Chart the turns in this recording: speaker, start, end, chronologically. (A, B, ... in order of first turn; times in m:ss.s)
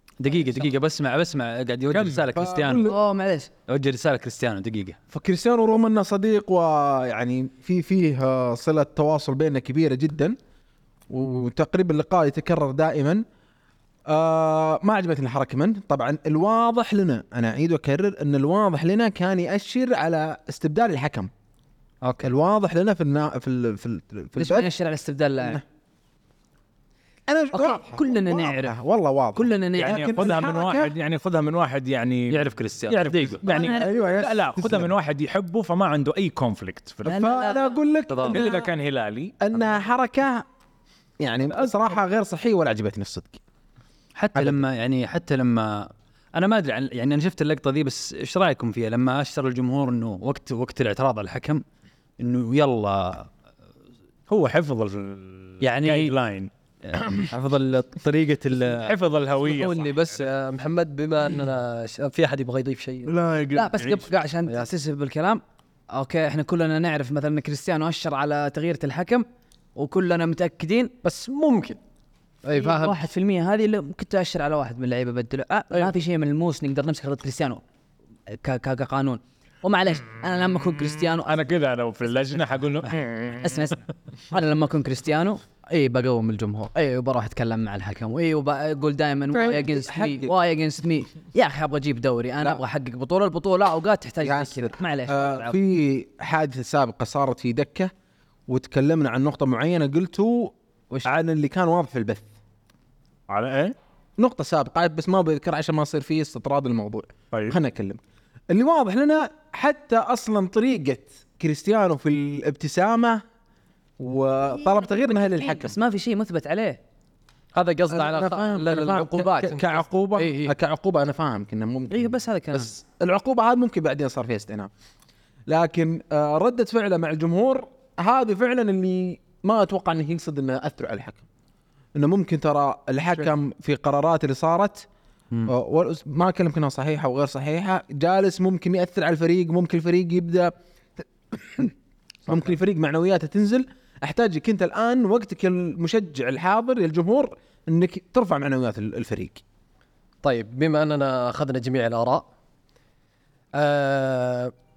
0:00.2-0:02.9 A
0:01.9-0:02.2 B
0:02.3-0:03.0 C
0:02.9-0:03.5 D
0:03.7-0:05.0 A
0:05.1-0:10.4 C
0:11.1-0:13.2 C
0:14.1-0:21.3 C
0:22.2-0:24.7 C
0:24.4-0:25.6 D
0:27.3-0:30.9 C
0:27.5-0:28.7 D
0:29.4-0:30.1 D
0:29.8-0:37.3 B
0:32.3-0:33.4 A
0:33.4-0:34.9 C
0:37.0-0:38.6 C
0:37.1-0:37.6 D
0:38.3-0:39.4 B
0:39.4-0:40.4 C
0:41.2-0:43.4 C
0:44.2-0:51.6 A
0:44.4-0:44.6 C
0:52.2-0:53.3 A
0:54.3-0:57.3 B
0:55.6-0:56.2 A
0:56.9-0:58.9 A
0:58.7-0:59.9 B
0:59.5-1:03.1 E
1:03.0-1:04.1 B
1:03.5-1:10.9 D
1:11.0-1:11.8 E
1:12.4-1:13.0 E
1:12.5-1:17.6 D
1:18.3-1:21.3 D
1:21.2-1:23.6 B
1:23.4-1:35.6 D
1:29.3-1:30.3 C
1:34.2-1:37.9 C
1:38.5-1:42.3 C
1:43.3-1:43.8 B
1:44.2-1:53.2 C
1:54.0-1:55.8 C
1:55.4-1:56.8 D
1:57.6-2:00.5 E
1:57.9-2:04.7 C
2:01.9-2:02.7 D
2:05.5-2:11.2 C
2:12.0-2:14.9 C
2:15.5-2:20.5 C
2:21.3-2:21.8 C
2:22.3-2:29.4 C
2:30.2-2:32.3 E
2:33.5-2:34.5 E